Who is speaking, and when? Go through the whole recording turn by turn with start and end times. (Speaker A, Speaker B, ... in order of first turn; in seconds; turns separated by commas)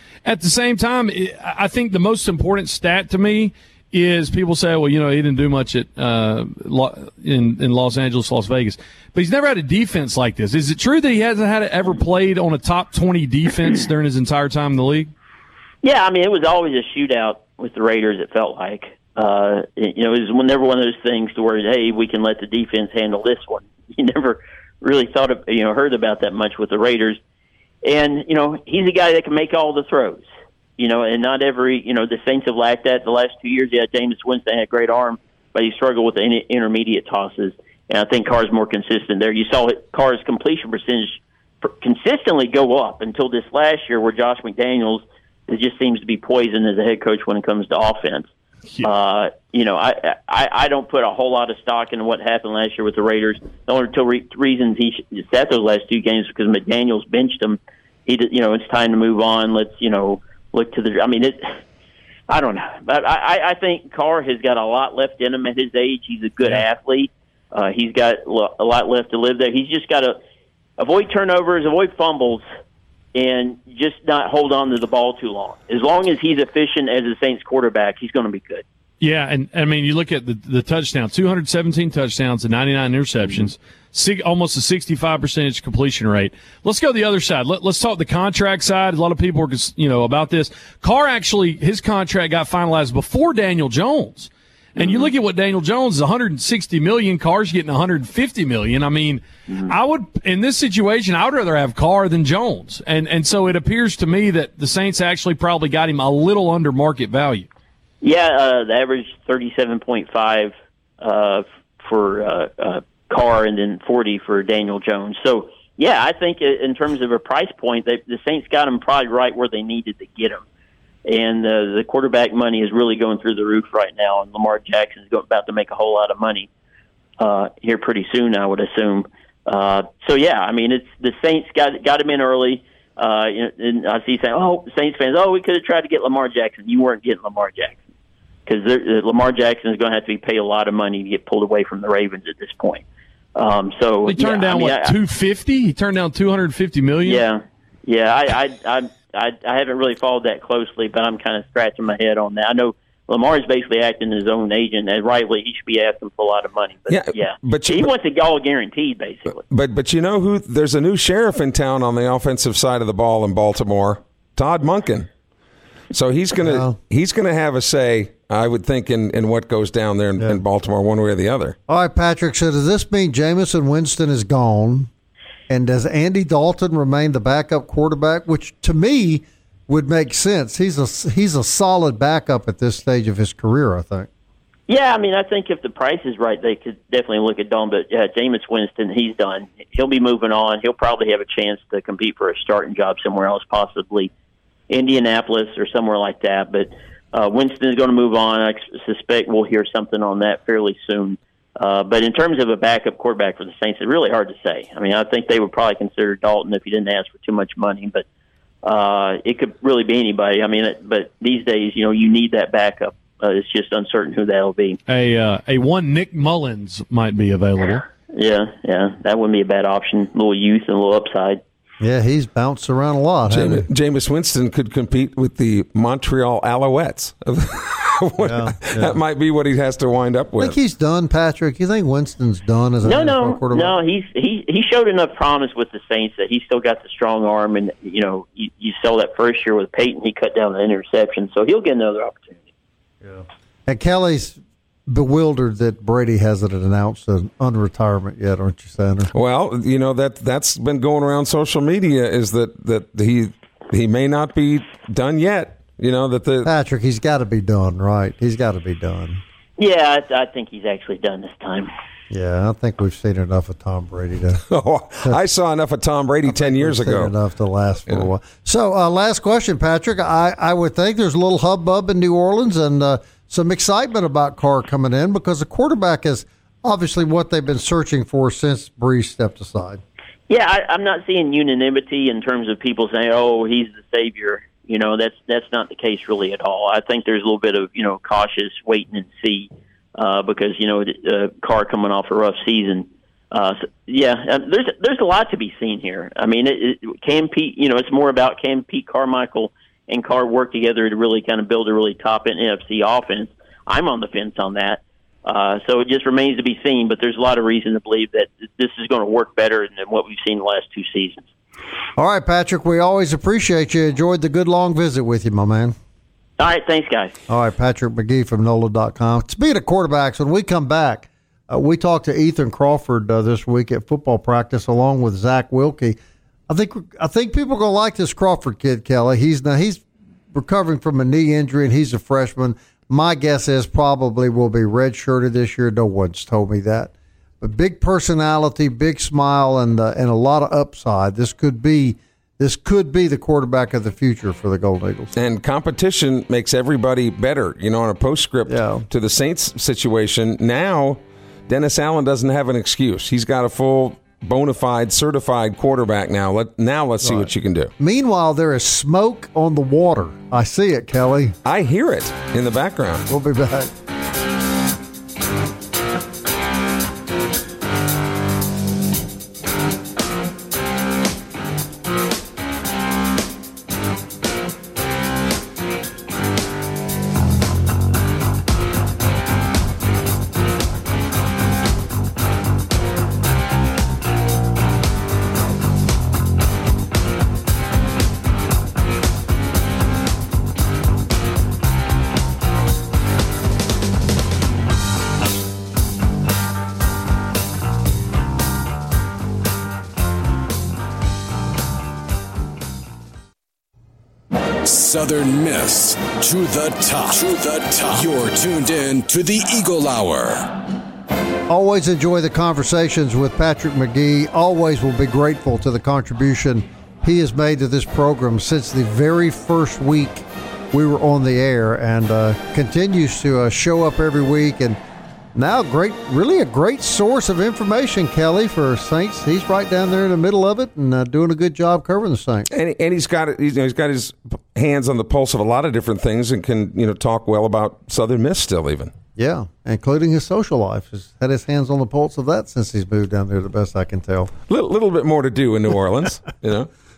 Speaker A: 0.2-15.1, Speaker B: 15.8-27.2, Speaker B: 27.8-30.3, Speaker B: 30.8-48.3, Speaker B: 48.8-61.6, Speaker B: 62.3-70.2, Speaker B: 70.8-72.4, Speaker B: 73.2-78.6, Speaker A: 79.0-107.5, Speaker B: 94.8-95.1, Speaker B: 108.0-120.4, Speaker B: 121.1-126.5, Speaker B: 127.2-137.8, Speaker B: 138.5-142.8, Speaker B: 143.4-144.9, Speaker A: 144.1-147.2, Speaker B: 147.1-159.4, Speaker C: 156.9-157.9, Speaker C: 159.5-165.1, Speaker C: 165.9-171.6, Speaker D: 166.4-166.8, Speaker D: 171.7-174.9, Speaker D: 175.5-184.1, Speaker B: 184.7-194.1, Speaker B: 194.7-208.0, Speaker B: 208.6-214.8, Speaker A: 214.9-217.8, Speaker B: 218.1-221.4, Speaker D: 221.8-223.7, Speaker C: 223.3-230.6, Speaker D: 228.2-229.0, Speaker D: 230.4-233.7, Speaker B: 232.8-242.4, Speaker D: 243.1-249.1, Speaker C: 249.1-256.5, Speaker D: 256.4-259.2, Speaker B: 259.6-261.7, Speaker D: 262.1-264.4, Speaker C: 264.5-267.1, Speaker D: 266.3-279.8, Speaker B: 280.3-311.3, Speaker D: 312.0-315.8, Speaker B: 316.4-317.1, Speaker D: 317.3-326.0, Speaker D: 326.5-329.8, Speaker D: 330.3-345.1, Speaker C: 345.1-357.7, Speaker D: 348.5-348.9, Speaker D: 357.0-361.4, Speaker C: 361.4-363.1, Speaker D: 363.1-363.7, Speaker E: 404.6-410.5, Speaker D: 411.5-424.8, Speaker D: 425.3-432.5, Speaker C: 432.5-438.9, Speaker D: 439.2-444.3, Speaker C: 444.5-446.7